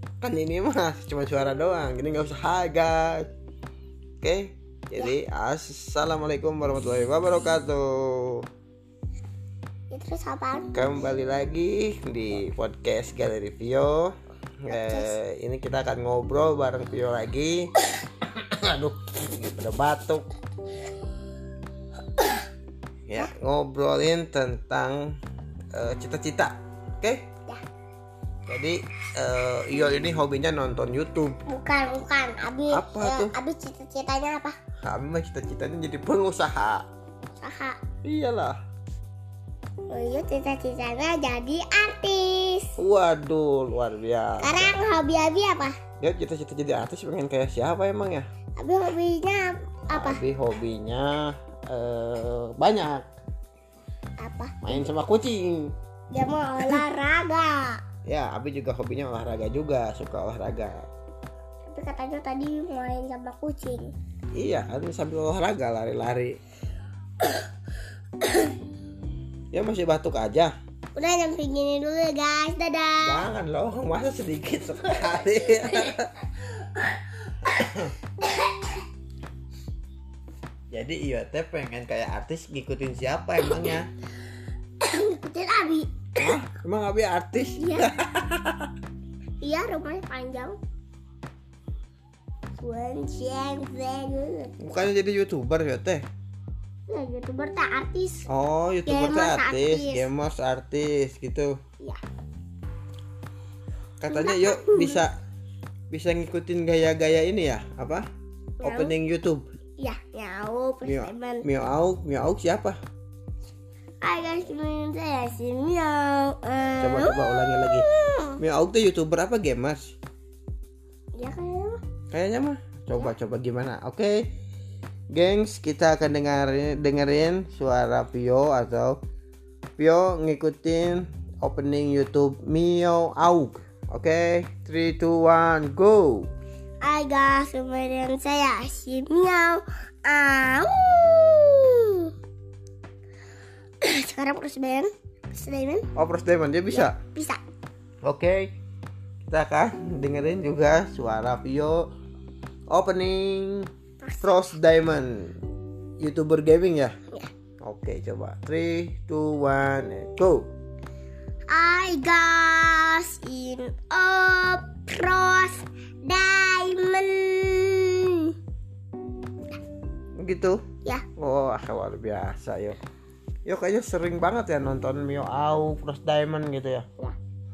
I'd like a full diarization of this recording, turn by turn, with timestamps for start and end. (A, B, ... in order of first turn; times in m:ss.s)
0:00.2-0:03.3 A
0:04.2-0:08.5 A
0:09.9-0:10.7 B
0:10.7-0:17.7 A
0:14.7-0:15.2 B
0:18.2-0:20.3 A
0:23.1-0:25.1 A
0:25.7-0:27.2 A
0:28.5-0:31.4 A
0:31.5-0:34.6 B
0:32.7-0:33.3 A
0:34.8-0:36.8 A
0:37.4-0:37.8 B
0:38.0-0:38.6 A
0:39.9-0:42.7 B
0:42.8-0:44.8 A
0:44.4-0:45.7 B
0:46.0-0:48.2 A
0:48.6-0:50.2 B
0:49.9-0:53.1 A
0:54.2-0:54.8 B
0:54.6-0:55.7 A
0:56.1-0:57.8 B
0:58.0-1:00.9 A
1:01.7-1:03.9 B
1:04.3-1:06.4 A
1:08.2-1:08.5 B
1:09.5-1:10.5 A
1:11.0-1:13.2 B
1:13.0-1:16.1 A
1:17.4-1:17.9 A
1:20.7-1:23.9 A
1:24.8-1:26.3 B
1:26.2-1:28.7 A
1:27.6-1:27.9 B
1:29.4-1:30.6 B
1:32.6-1:34.5 B
1:34.6-1:36.0 A
1:36.9-1:38.3 B
1:38.3-1:41.6 A
1:38.8-1:40.1 B
1:44.0-1:45.1 A
1:44.1-1:45.0 B
1:45.9-1:48.0 A
1:48.6-1:48.9 B
1:48.6-1:49.5 A
1:49.8-1:51.4 B
1:50.8-1:52.8 A
1:54.0-1:58.4 B
1:56.8-1:57.9 A
1:58.4-2:00.0 A
2:01.1-2:01.8 B
2:02.1-2:04.3 A
2:05.1-2:09.0 A
2:09.8-2:16.3 A
2:16.8-2:22.1 B
2:23.8-2:25.8 B
2:26.0-2:27.0 A
2:26.7-2:27.4 B
2:28.0-2:28.5 A
2:29.3-2:31.9 A
2:32.7-2:33.7 A
2:34.0-2:34.5 B
2:34.2-2:35.4 A
2:36.0-2:36.9 A
2:37.6-2:40.5 A
2:41.5-2:48.3 B
2:50.2-2:50.6 A
2:51.2-2:52.8 A
2:53.4-2:56.8 A